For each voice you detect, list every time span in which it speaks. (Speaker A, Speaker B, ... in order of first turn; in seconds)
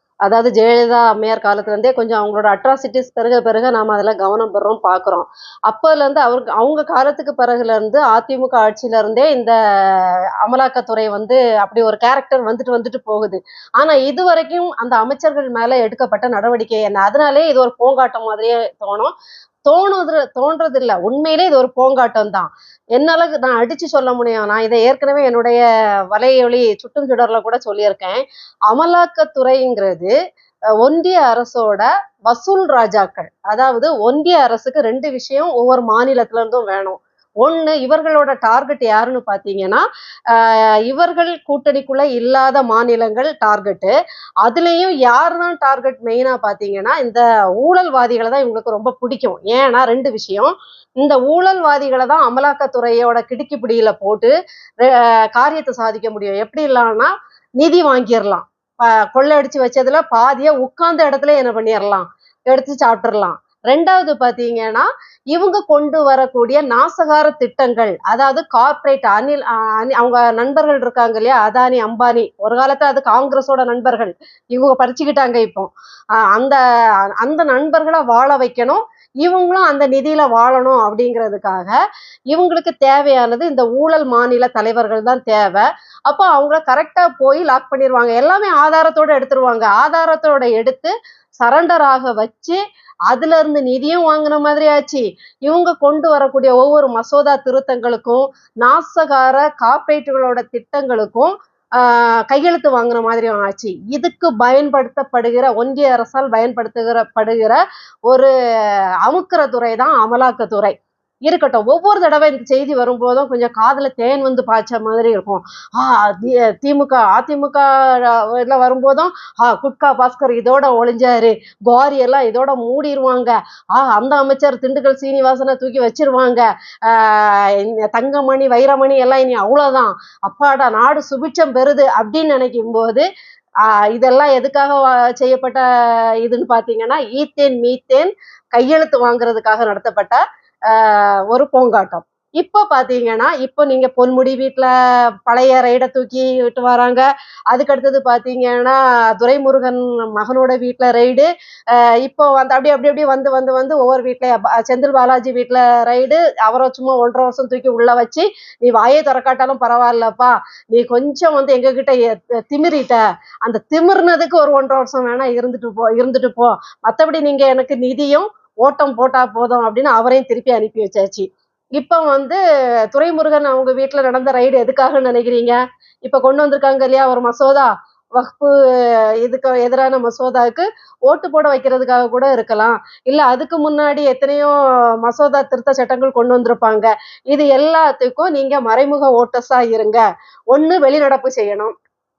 Speaker A: 0.3-19.1, 19.7-30.1, 30.8-43.9, 44.4-76.6, 77.2-81.8, 82.3-108.3, 109.0-110.7, 111.3-133.1, 133.7-135.6, 136.2-144.7, 145.3-191.7